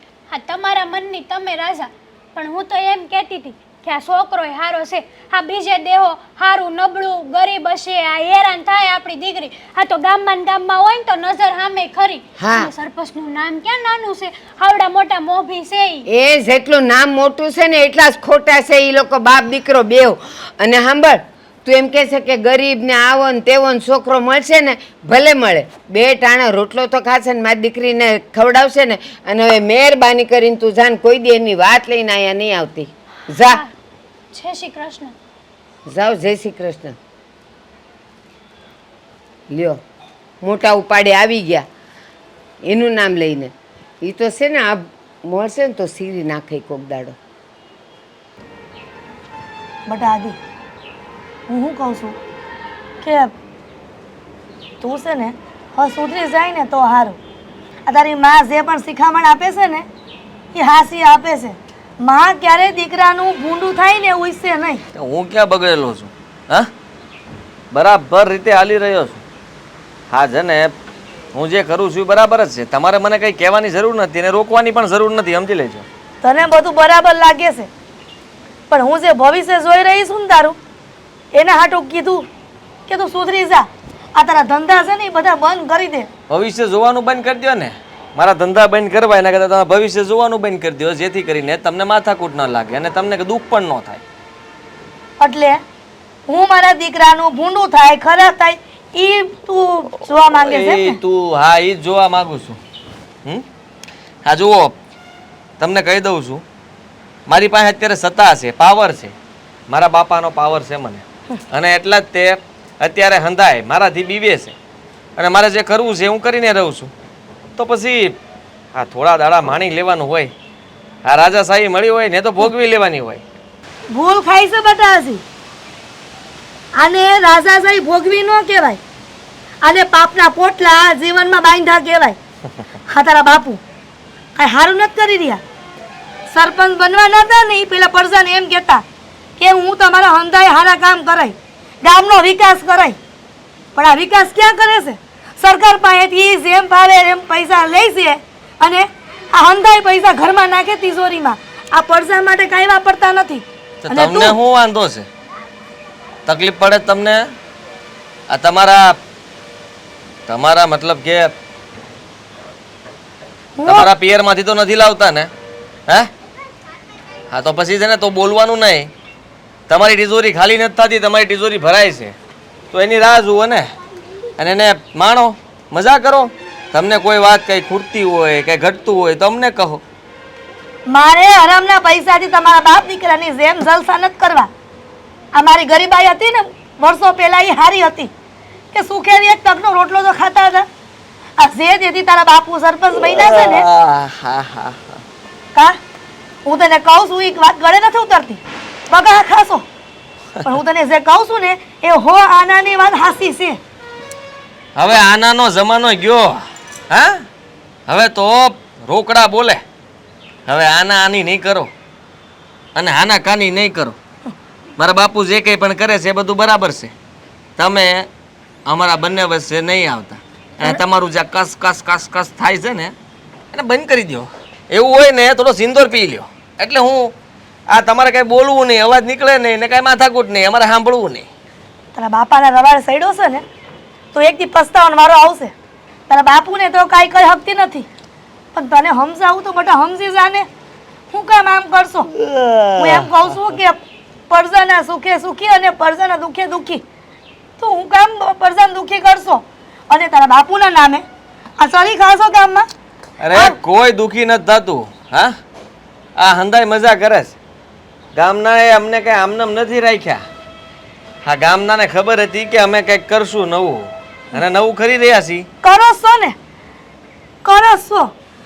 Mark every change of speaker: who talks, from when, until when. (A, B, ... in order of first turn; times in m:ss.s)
0:00.3-0:16.0 A
0:12.4-0:12.7 B
0:16.1-0:33.6 B
0:34.3-0:35.1 A
0:35.9-0:36.9 B
0:39.5-0:39.8 B
0:40.4-0:41.6 B
0:42.6-0:47.2 B
0:49.9-0:50.4 C
0:51.5-0:52.2 C
0:53.0-0:53.3 C
0:54.8-0:57.2 C
0:57.9-0:59.9 C
1:00.5-1:04.8 C
1:04.9-1:06.7 D
1:07.7-1:09.2 D
1:10.1-1:10.7 D
1:11.3-1:15.8 D
1:16.2-1:17.7 C
1:18.7-1:20.6 C
1:21.3-1:22.3 C
1:22.9-1:26.1 C
1:26.3-1:34.0 D
1:35.2-1:35.6 C
1:36.3-1:41.0 C
1:40.3-1:42.6 D
1:44.2-1:44.8 D
1:45.6-1:46.4 D
1:47.3-1:49.1 D
1:49.7-1:54.6 D
1:55.2-1:56.9 D
1:57.6-1:58.2 D
1:58.7-2:00.3 D
2:01.0-2:03.2 D
2:03.9-2:05.2 C
2:06.8-2:08.8 C
2:09.6-2:12.2 C
2:12.9-2:13.6 C
2:14.4-2:15.4 C
2:16.3-2:18.8 C
2:19.4-2:23.0 C
2:23.7-2:34.3 C
2:33.8-2:35.1 D
2:36.2-2:37.2 D
2:38.3-2:39.0 D
2:40.3-2:41.3 D
2:43.6-2:43.9 C
2:43.6-2:45.3 D
2:47.3-2:48.9 D
2:49.7-2:52.2 D
2:52.7-2:53.7 D
2:54.4-2:59.8 D
3:00.9-3:04.5 C
3:05.3-3:08.1 C
3:08.7-3:10.7 C
3:11.4-3:13.6 C
3:12.9-3:15.0 D
3:16.4-3:19.6 C
3:20.4-3:23.6 C
3:24.8-3:27.2 D
3:27.9-3:29.6 D
3:30.5-3:31.7 D
3:32.8-3:34.0 D
3:34.8-3:36.9 D
3:37.6-3:38.1 D
3:38.6-3:42.9 D
3:43.5-3:47.1 D
3:47.7-3:51.3 D
3:51.9-3:53.4 C
3:54.1-3:55.5 C
3:56.1-3:57.9 C
3:58.5-4:00.5 C
4:01.1-4:02.1 C
4:02.1-4:03.1 D
4:02.8-4:06.8 C
4:07.6-4:11.0 C
4:11.6-4:12.7 C
4:13.2-4:15.3 D
4:13.3-4:13.6 C
4:16.2-4:17.4 D
4:18.1-4:20.2 D
4:21.2-4:25.5 D
4:25.6-4:26.3 C
4:27.4-4:28.1 C